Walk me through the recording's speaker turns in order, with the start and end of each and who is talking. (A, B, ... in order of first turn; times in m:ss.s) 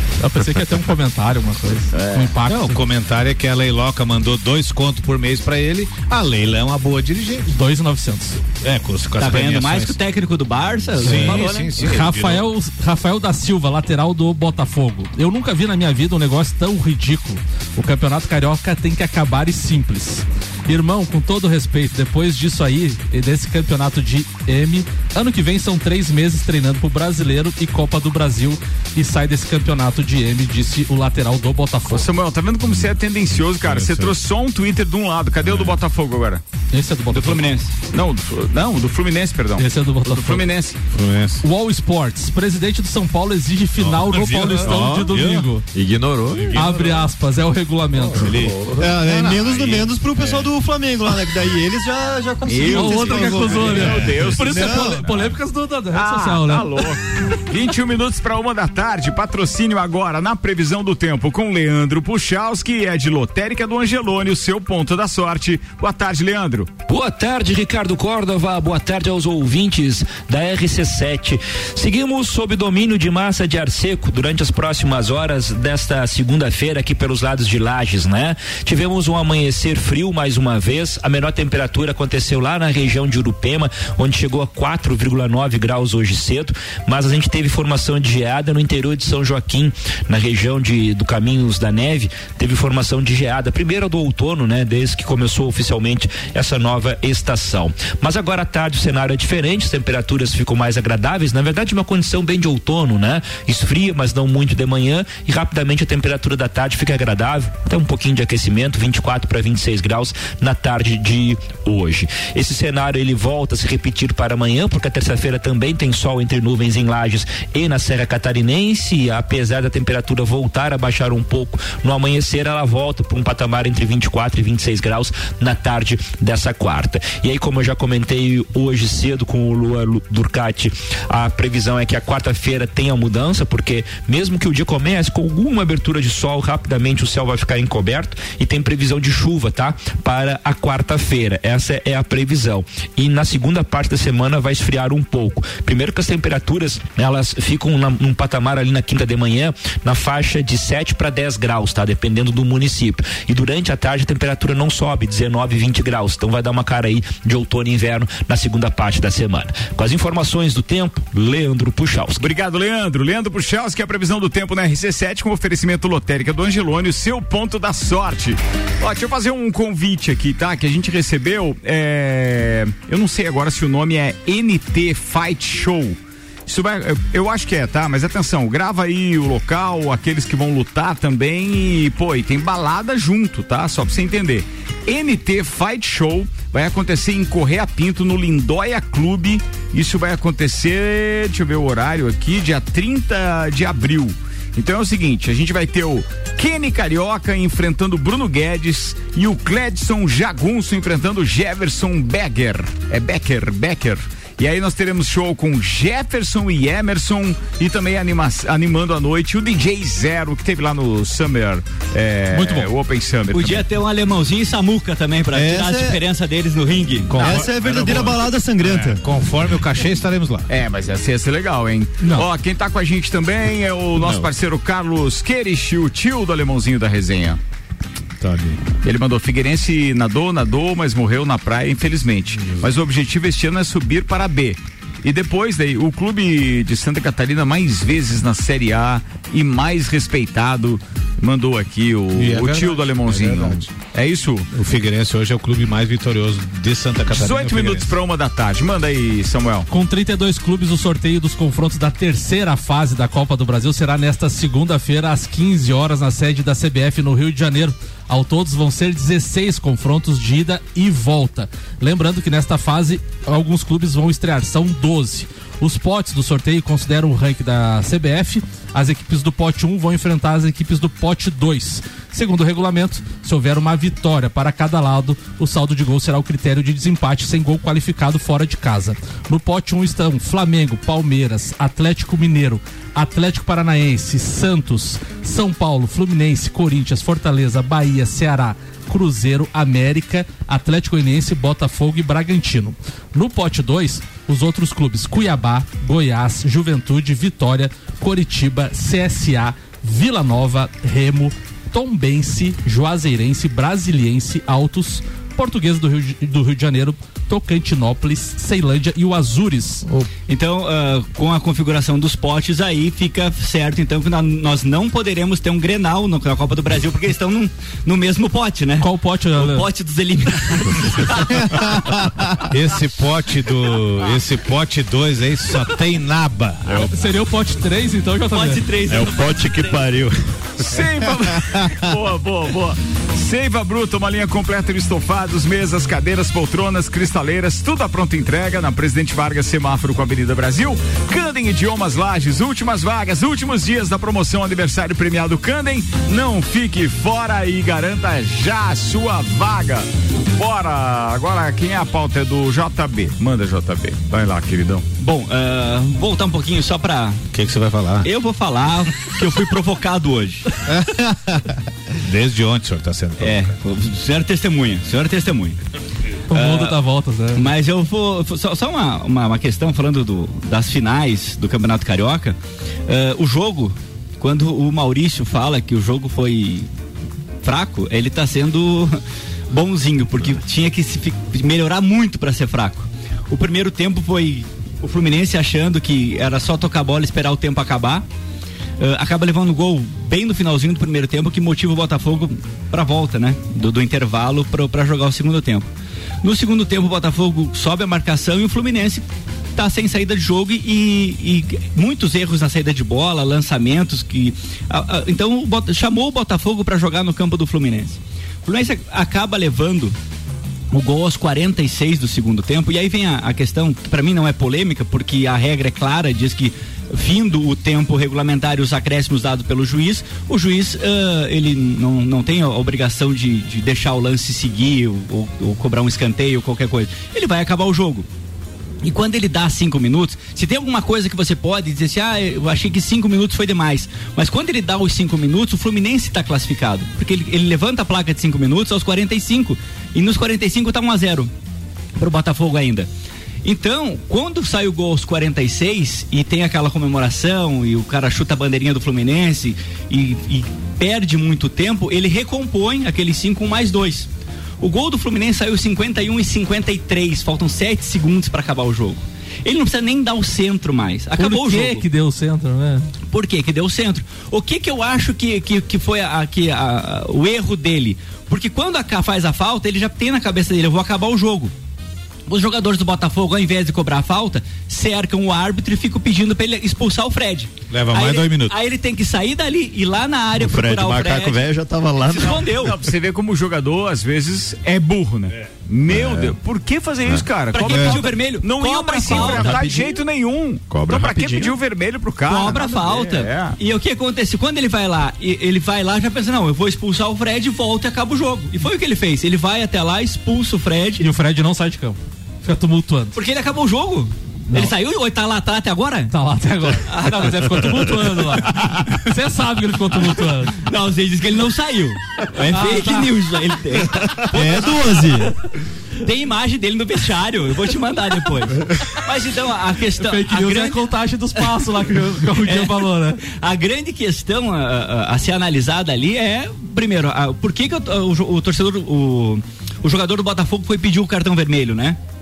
0:00.2-0:02.8 A
0:01.9-0:02.3 B
0:02.4-0:07.5 C
0:07.5-0:08.4 A
0:08.6-0:10.0 C
0:09.2-0:11.8 D
0:10.9-0:12.5 C
0:11.0-0:32.0 A
0:31.9-0:36.4 B
0:33.6-0:34.2 C
0:36.7-0:37.5 A
0:37.1-0:37.7 D
0:37.9-0:40.8 B
0:39.6-0:40.4 A
0:40.9-0:41.4 C
0:41.4-0:45.6 A
0:43.8-0:45.5 C
0:44.7-0:45.1 E
0:45.7-0:46.6 E
0:46.5-0:48.3 A
0:48.2-0:50.4 C
0:48.8-0:55.0 F
0:52.4-0:55.1 B
0:52.7-0:56.8 A
0:53.8-0:54.1 C
0:55.9-1:06.7 B
1:06.9-2:42.3 G
2:42.2-3:33.7 B
3:32.3-3:32.7 A
3:33.3-3:37.4 D
3:35.3-3:36.0 F
3:37.1-3:40.5 C
3:37.2-3:39.0 F
3:37.6-3:38.1 B
3:40.5-3:47.4 B
3:42.0-3:42.3 A
3:48.2-3:48.6 C
3:48.8-4:04.5 B
3:52.4-3:52.7 C
4:02.1-4:03.7 C
4:04.5-4:07.9 C
4:07.1-4:09.7 B
4:09.7-5:09.8 A
5:10.3-5:21.3 D
5:18.8-5:19.7 A
5:22.5-5:26.9 C
5:26.9-5:28.6 A
5:28.3-5:29.9 D
5:28.9-5:30.1 E
5:30.6-5:54.8 B
5:55.0-5:57.2 D
5:57.3-5:58.1 C
5:58.0-6:00.5 D
6:00.6-6:03.5 C
6:03.2-6:05.6 D
6:06.3-6:07.5 A
6:06.3-6:06.8 D
6:07.3-6:16.7 D
6:17.4-6:28.0 D
6:28.8-6:35.7 D
6:36.2-6:39.0 D
6:39.6-6:50.0 D
6:50.7-7:08.0 D
7:08.8-7:21.3 D
7:22.0-7:22.9 D
7:23.4-7:34.1 D
7:34.6-7:41.8 D
7:41.2-7:42.9 A
7:43.1-7:51.5 D
7:52.3-8:01.4 D
7:57.7-7:58.5 C
8:00.4-8:02.6 E
8:02.0-8:02.7 D
8:02.6-8:13.6 B
8:05.9-8:06.3 E
8:07.5-8:09.6 D
8:09.1-8:10.0 E
8:10.7-8:11.6 E
8:12.3-8:21.0 D
8:21.0-8:23.2 A
8:23.1-8:26.1 D
8:24.5-8:24.7 A
8:26.1-8:30.6 A
8:26.9-8:27.8 D
8:30.6-8:35.3 D
8:32.5-8:33.1 A
8:34.3-8:35.3 F
8:36.0-8:40.8 D
8:40.0-8:43.2 A
8:41.3-8:41.6 D
8:42.3-8:52.0 D